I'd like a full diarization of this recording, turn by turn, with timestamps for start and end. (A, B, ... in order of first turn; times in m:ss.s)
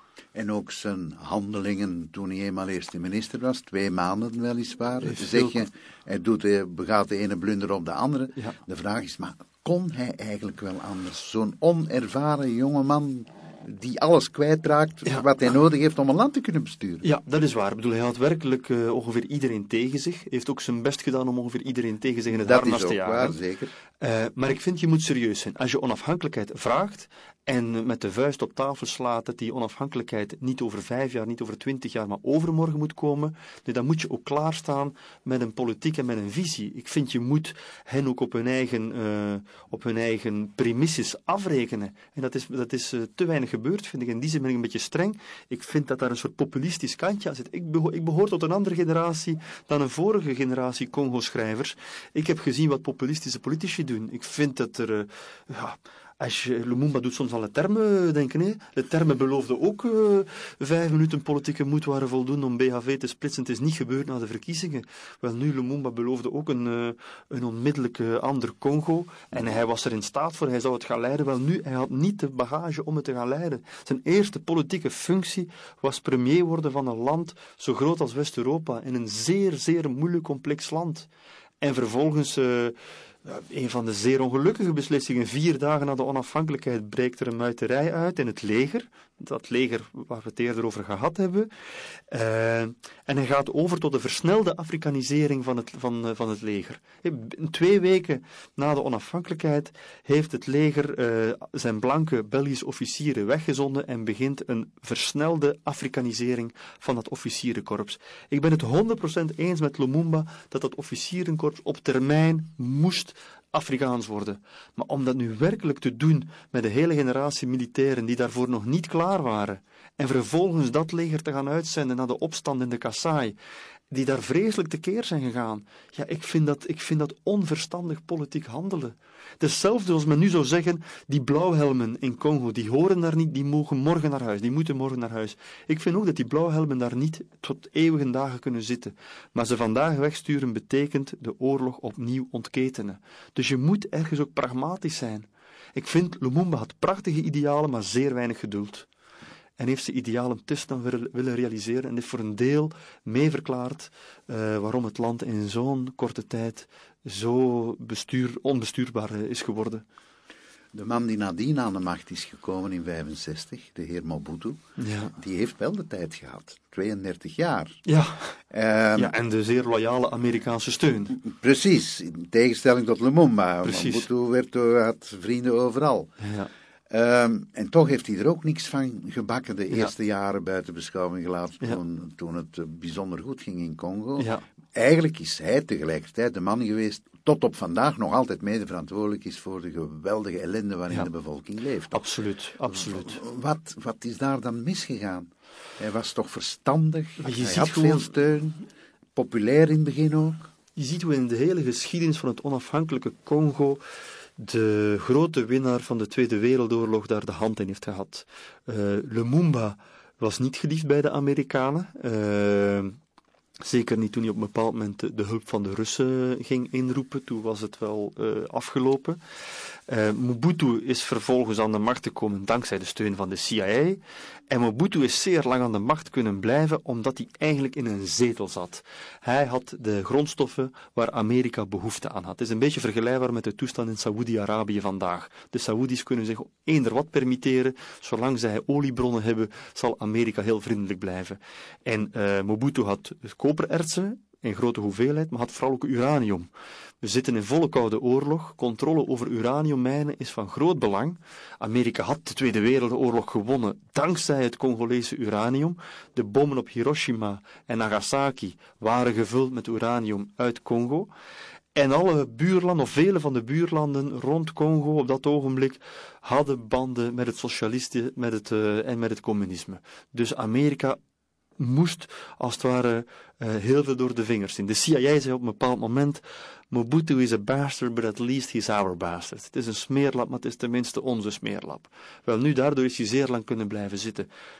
0:00.3-0:17.0 A
0:05.0-0:05.6 B
0:17.0-0:23.4 B
0:22.3-0:23.7 A
0:24.0-1:21.1 B
1:21.6-1:31.5 B
1:32.1-2:03.4 B
2:03.9-2:28.9 B
2:29.6-2:39.8 B
2:40.7-2:44.6 A
2:44.8-2:45.1 B
2:45.1-2:47.8 A
2:47.8-2:48.4 B
2:48.5-2:49.1 A
2:48.9-2:51.2 B
2:51.1-2:56.1 A
2:53.6-2:54.0 B
2:56.2-2:56.5 B
2:56.9-3:12.1 A
3:04.2-3:04.4 B
3:11.9-3:13.2 B
3:12.7-3:20.5 A
3:17.2-3:18.1 B
3:20.8-3:23.8 B
3:24.4-3:33.0 B
3:33.6-3:39.2 B
3:39.9-4:06.5 B
4:07.0-4:21.1 B
4:21.7-4:31.0 B
4:31.6-4:44.3 B